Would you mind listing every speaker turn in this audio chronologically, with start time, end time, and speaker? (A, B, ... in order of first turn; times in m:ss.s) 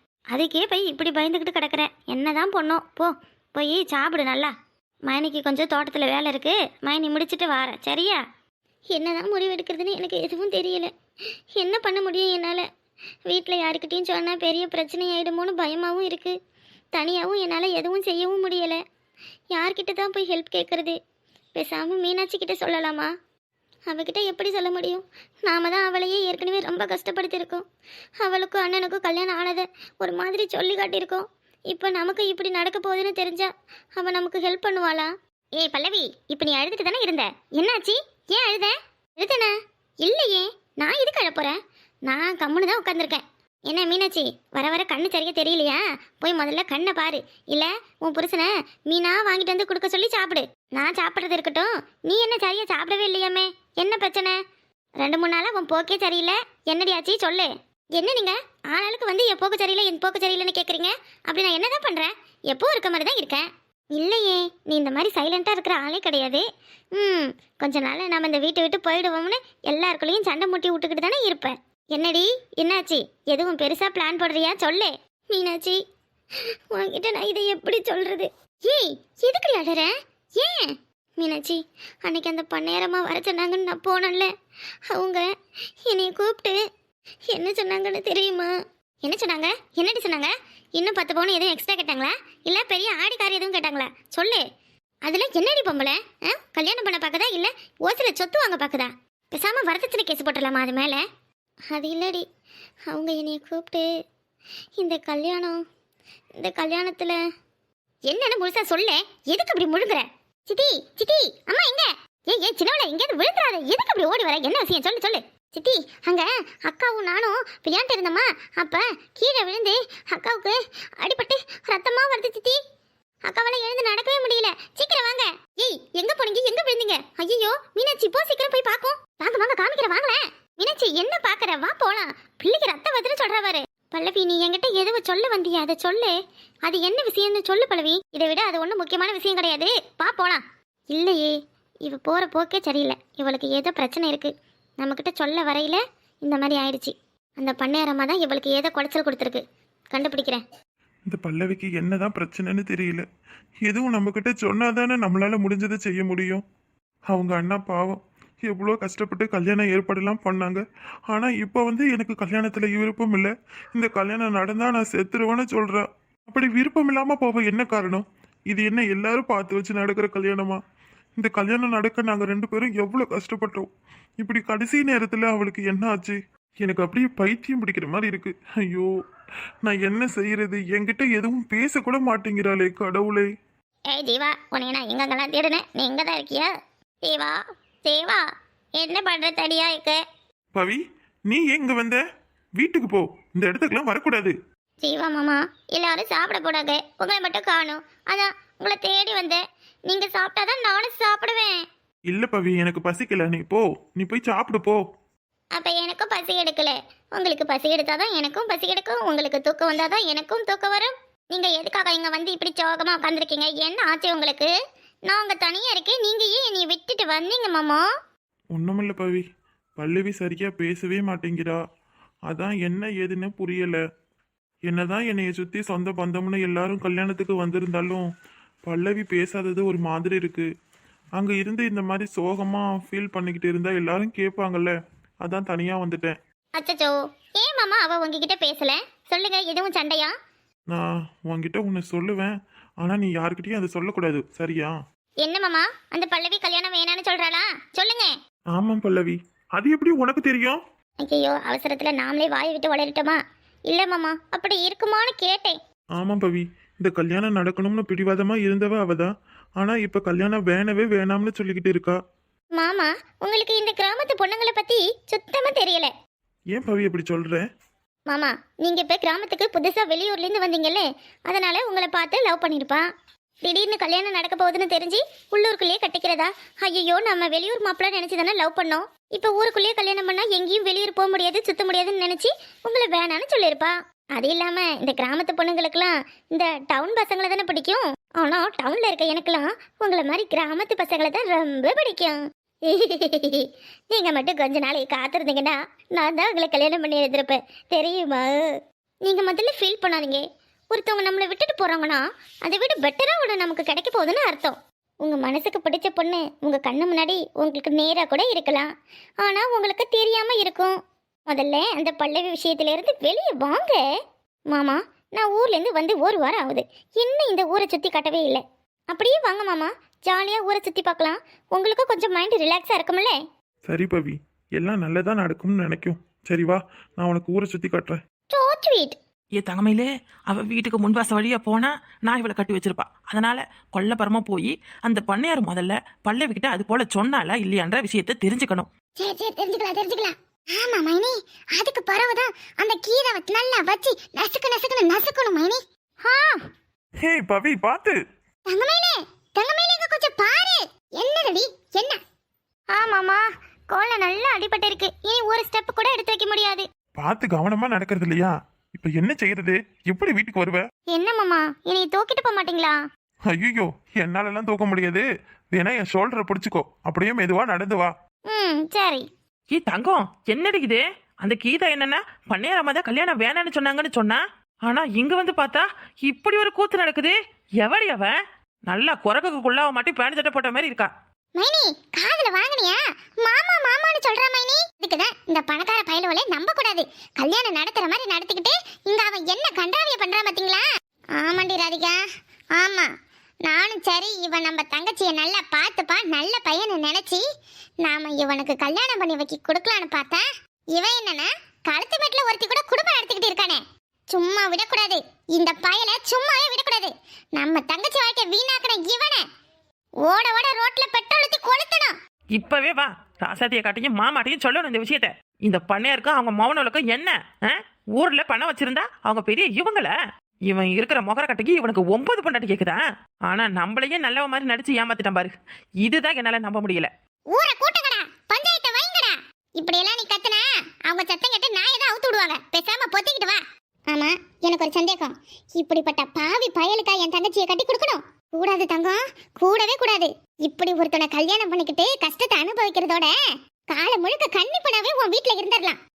0:00.3-0:04.5 A
0:05.1-0:08.2 A
0:08.9-0:10.9 A
0:11.5-0:12.7 A
0:13.3-0:16.4 A
0:16.9-0:18.8 A
0:19.5-0:21.0 A
0:21.5-0:23.1 A
0:23.9-0:27.6 A
0:28.2-0:54.3 A
0:55.0-1:06.4 A
1:07.0-1:15.8 A
1:16.7-1:24.3 A
1:24.9-1:25.3 A
1:25.9-1:26.6 A
1:27.3-1:34.4 A
1:35.0-1:41.0 A
1:41.7-1:42.2 A
1:42.9-1:43.9 A
1:44.8-1:45.6 A
1:46.4-1:47.2 A
1:48.1-2:02.6 A
2:03.2-2:16.1 A
2:16.7-2:29.4 A
2:29.9-2:30.4 A
2:31.1-2:33.0 B
2:33.7-2:36.4 B
2:37.1-2:50.6 B
2:51.2-2:53.7 B
2:54.2-2:58.9 B
2:59.6-3:03.3 B
3:03.9-3:06.5 A
3:07.0-3:08.2 A
3:08.8-3:10.0 A
3:10.5-3:12.0 B
3:12.6-3:14.3 B
3:14.8-3:21.6 A
3:22.1-3:24.8 B
3:25.5-3:34.5 A
3:35.1-3:37.8 A
3:38.5-3:39.2 B
3:39.8-3:41.6 B
3:42.3-3:43.8 B
3:44.7-3:48.0 B
3:48.7-3:50.5 B
3:51.2-3:56.1 B
3:56.6-4:00.2 A
4:00.7-4:04.7 B
4:05.2-4:08.1 A
4:08.6-4:10.6 B
4:11.0-4:15.6 A
4:16.0-4:22.0 B
4:22.6-4:25.9 A
4:26.5-4:27.4 B
4:28.1-4:32.8 A
4:33.4-5:10.8 A
5:11.3-5:13.8 A
5:14.5-5:23.1 A
5:23.7-5:28.0 B
5:28.3-5:29.0 A
5:29.4-5:38.7 C
5:39.0-5:46.4 A
5:47.0-5:48.0 B
5:48.5-5:52.0 A
5:52.7-5:56.6 A
5:57.0-6:00.6 B
6:00.9-6:02.8 A
6:03.3-6:07.9 B
6:08.3-6:09.0 A
6:09.5-6:18.1 C
6:18.7-6:20.9 C
6:21.4-6:30.6 A
6:31.2-6:32.0 A
6:32.6-6:32.9 A
6:33.4-6:37.2 A
6:37.8-6:49.2 A
6:50.0-6:51.9 A
6:52.3-6:59.9 C
7:00.5-7:06.9 C
7:07.3-7:23.1 A
7:23.7-7:25.8 A